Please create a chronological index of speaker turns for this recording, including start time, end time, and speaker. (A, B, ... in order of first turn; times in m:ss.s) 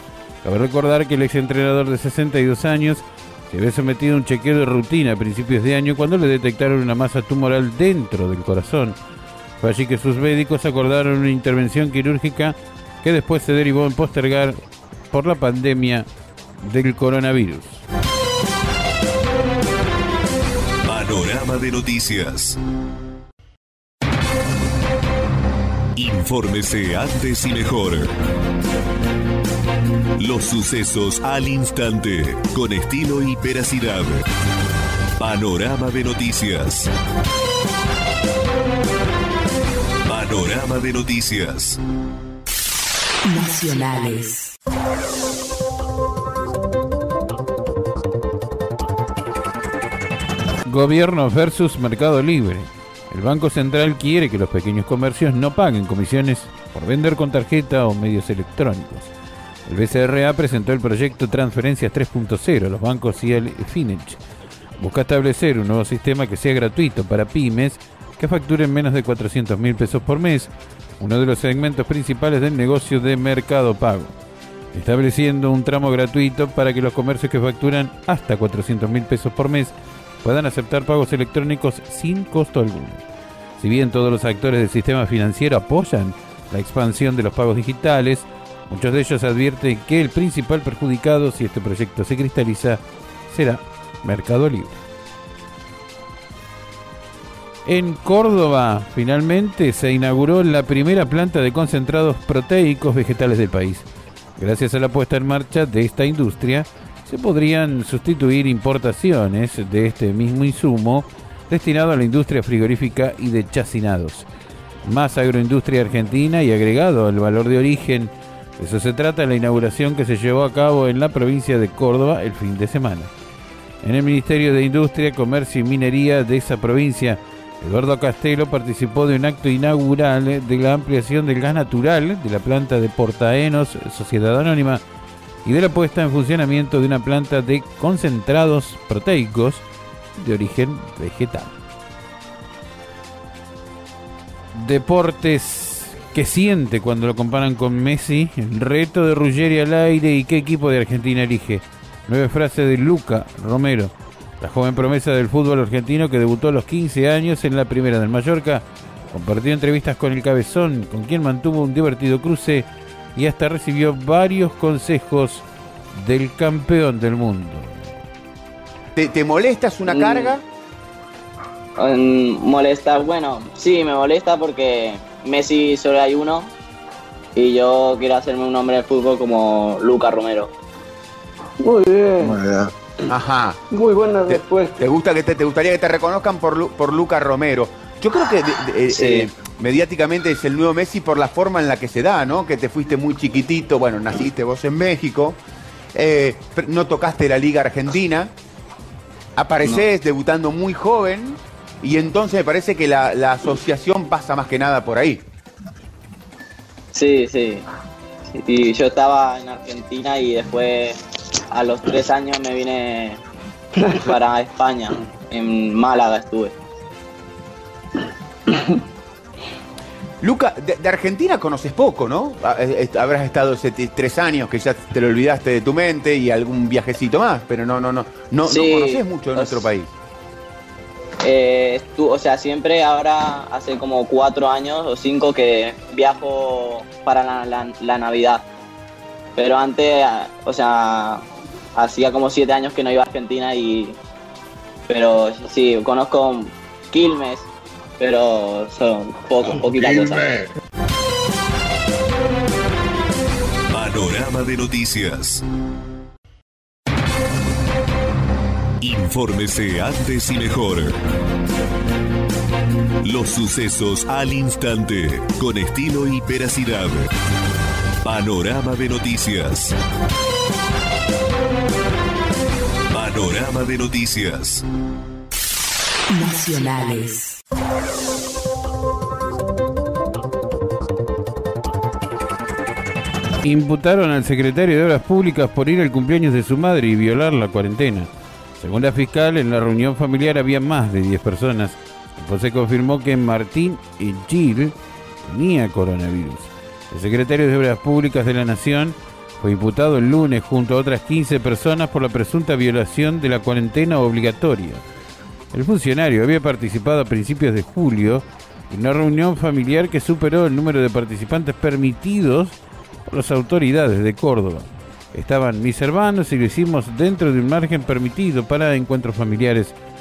0:00.4-0:09.0 A
0:09.6-0:14.6 A
0:15.1-0:17.8 A
0:20.9-0:22.6 B
0:26.0-0:28.1 B
0:30.2-0:34.3 B
0:35.2-0:36.9 B
0:40.1-0:41.8 B
0:43.2-0:44.5 C
0:50.7-0:59.1 A
0:59.7-1:04.2 A
1:04.8-1:14.2 A
1:14.7-1:23.0 A
1:23.6-1:34.8 A
1:37.6-1:43.9 A
1:44.4-1:54.3 A
1:54.8-2:03.1 A
2:03.8-2:14.8 A
2:15.4-2:19.6 A
2:20.2-2:21.6 A
2:24.5-2:47.8 A
2:49.0-2:50.4 D
2:49.9-2:50.4 E
2:51.8-2:56.5 E
2:57.4-3:00.5 E
3:01.6-3:02.7 F
3:03.1-3:03.6 D
3:03.7-3:04.8 F
3:04.3-3:15.4 D
3:08.9-3:09.3 E
3:16.0-3:18.3 D
3:19.4-3:25.3 D
3:26.9-3:27.7 E
3:28.3-3:31.0 E
3:31.5-3:33.2 E
3:34.0-3:36.6 E
3:40.2-3:49.9 D
3:48.4-3:49.7 E
3:51.2-3:58.5 E
3:59.4-4:04.0 E
4:04.9-4:10.4 E
4:09.7-4:10.4 F
4:13.7-4:15.4 B
4:18.8-4:21.0 B
4:23.0-4:27.1 B
4:28.0-4:29.8 B
4:32.9-4:34.6 B
4:36.1-4:37.4 C
4:43.4-5:04.8 A
5:05.5-5:19.8 A